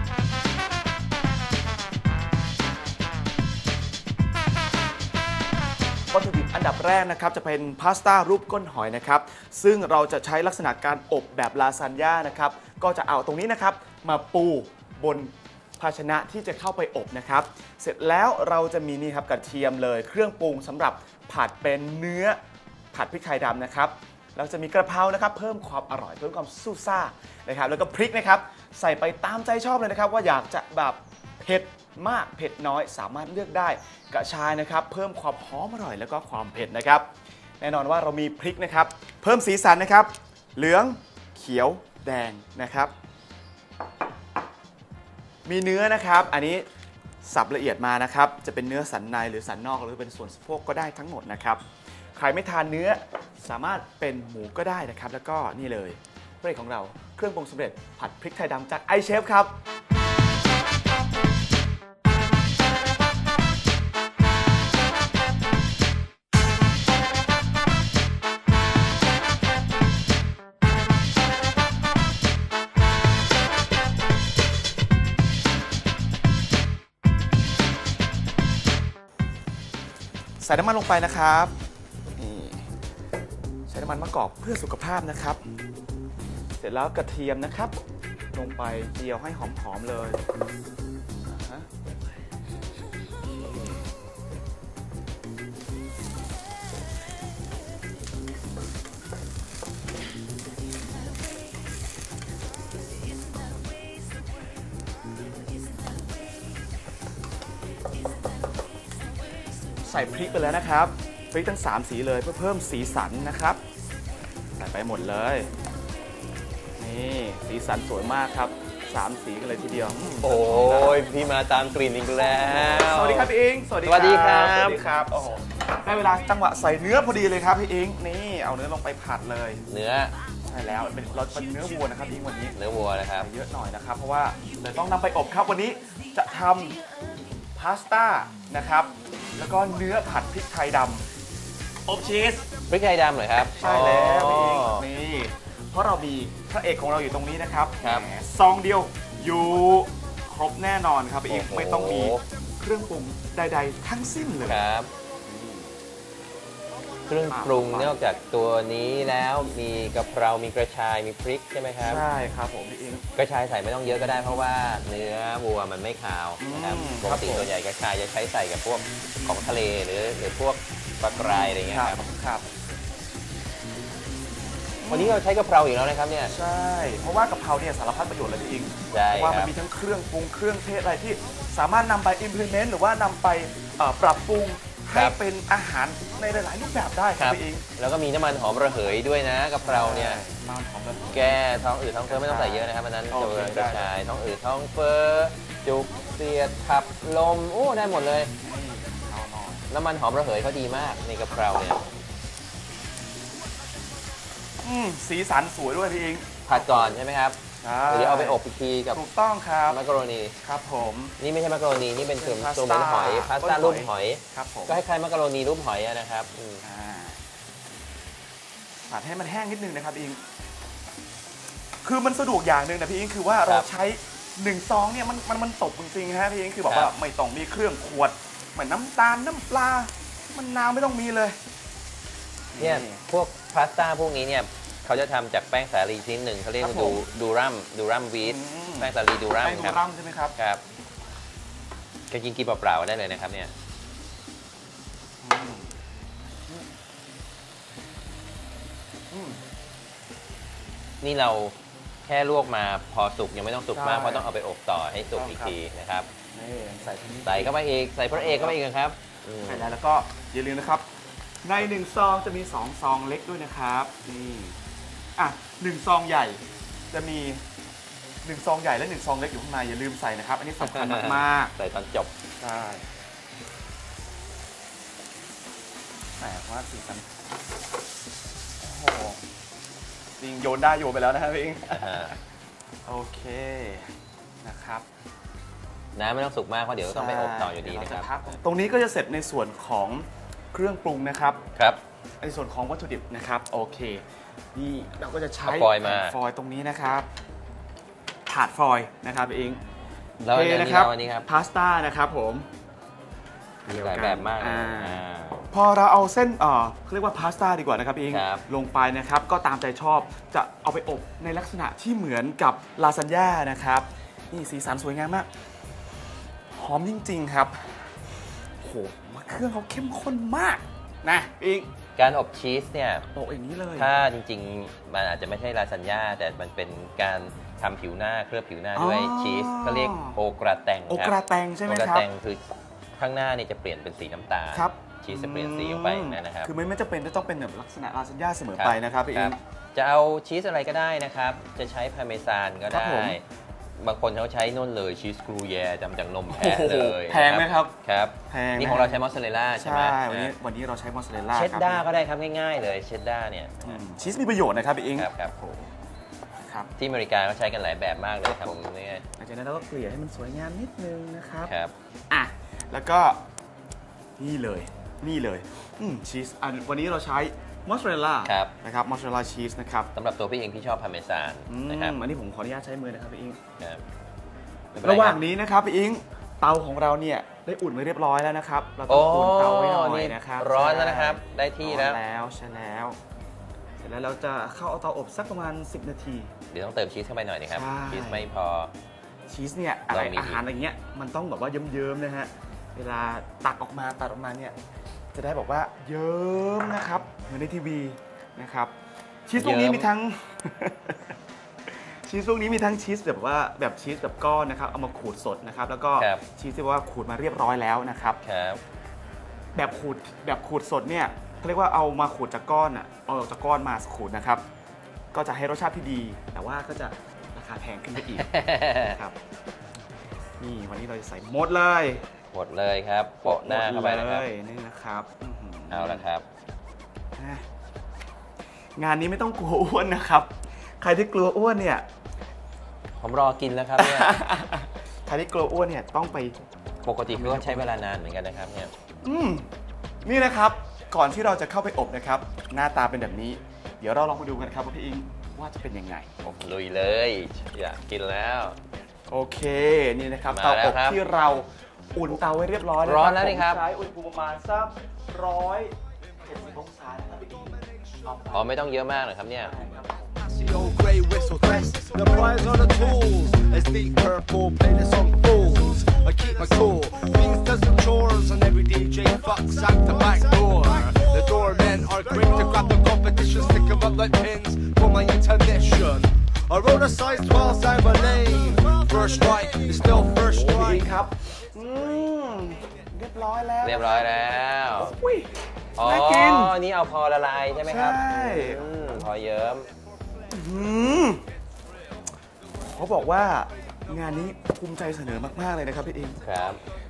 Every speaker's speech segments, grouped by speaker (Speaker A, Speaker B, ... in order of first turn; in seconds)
Speaker A: 6.1-22.4, 22.9-37.1, 37.6-42.9, 45.4-46.6, 47.2-51.6, 52.1-59.5, 80.4-81.5, 82.2-82.7, 83.7-85.4, 86.6-87.8, 88.3-90.2, 91.2-91.7, 93.2-93.8, 109.8-113.6, 114.6-115.5, 116.8-121.0, 122.4-129.6, 130.4-132.6, 133.1-136.8, 137.5-141.1, 141.8-142.5, 143.5-154.6, 155.2-155.8, 157.3-158.0, 161.8-163.1, 166.4-167.5, 171.2-172.5, 174.8-175.2, 176.3-187.6, 189.6-191.4, 192.1-193.9, 198.4-199.7, 204.6-206.9, 207.6-208.4, 208.9-209.8, 210.4-211.2, 212.2-214.8, 216.6-217.2, 218.9-220.2, 221.8-231.4, 232.5-233.0, 236.6-237.1, 238.2-240.4, 245.2-245.8, 249.1-249.4, 253.7-254.3, 255.1-255.6, 256.3-257.6, 258.1-258.6, 259.4-260.9, 261.4-264.6, 265.2-267.4, 268.2-271.5, 272.4-272.9, 276.2-277.1, 278.6-279.2, 280.2-282.2, 282.9-283.9, 284.4-284.9, 286.8-291.4, 292.2-294.0, 294.5-297.1, 298.2-299.6, 300.3-302.5, 303.7-315.3, 316.5-318.1, 318.6-321.7, 323.1-323.9, 328.7-330.2, 330.9-332.1, 334.5-339.4, 342.7-343.2, 346.3-347.7, 348.3-349.0, 349.6-351.8, 353.6-355.7, 356.4-356.7, 359.2-361.5, 362.1-363.2, 364.2-369.9, 371.5-373.4, 374.8-383.0, 383.8-386.3, 387.5-388.3, 389.3-394.5, 395.1-398.7, 399.3-401.1, 401.7-408.2, 409.5-414.4, 415.1-419.1, 420.4-422.1, 423.2-426.1, 427.1-427.4, 428.8-431.9, 433.8-436.5, 437.1-437.7, 439.0-439.5, 440.0-446.1, 449.1-458.5, 459.4-460.6, 480.4-484.2, 484.7-486.6, 487.6-488.9, 490.3-491.2, 492.6-496.2
Speaker B: 120.2-123.3, 123.8-124.8, 129.7-130.1, 132.5-133.3, 142.7-144.8, 147.8-148.1, 151.3-152.2, 154.4-154.9, 157.1-162.0, 163.1-172.0, 174.9-176.3, 178.9-179.5, 184.9-185.2, 187.2-190.2, 191.1-198.3, 199.7-201.8, 206.5-209.0, 209.7-210.3, 211.2-216.6, 226.7-226.9, 232.5-239.8, 240.4-240.6, 242.1-243.5, 251.0-256.1, 257.2-259.7, 270.6-272.1, 281.7-282.1, 285.9-288.1, 291.5-291.8, 295.4-296.2, 300.2-301.2, 303.7-305.5, 308.1-308.4, 322.0-323.1, 323.8-331.1, 331.6-332.4, 333.0-336.5, 338.6-343.2, 343.8-350.3, 351.3-353.8, 354.9-355.3, 356.8-359.0, 361.5-361.7, 368.2-368.5, 369.9-372.0, 374.7-375.2, 378.9-382.0, 386.5-388.7, 389.9-390.4, 399.4-399.9, 406.0-406.2, 408.2-408.6, 418.1-419.0, 422.3-424.3, 425.7-426.2, 433.0-434.2, 436.8-438.7, 446.2-448.6, 450.3-451.0, 452.8-453.6, 458.3-459.5, 483.6-484.9, 485.8-489.7, 496.2-496.6
Speaker C: 460.4-480.9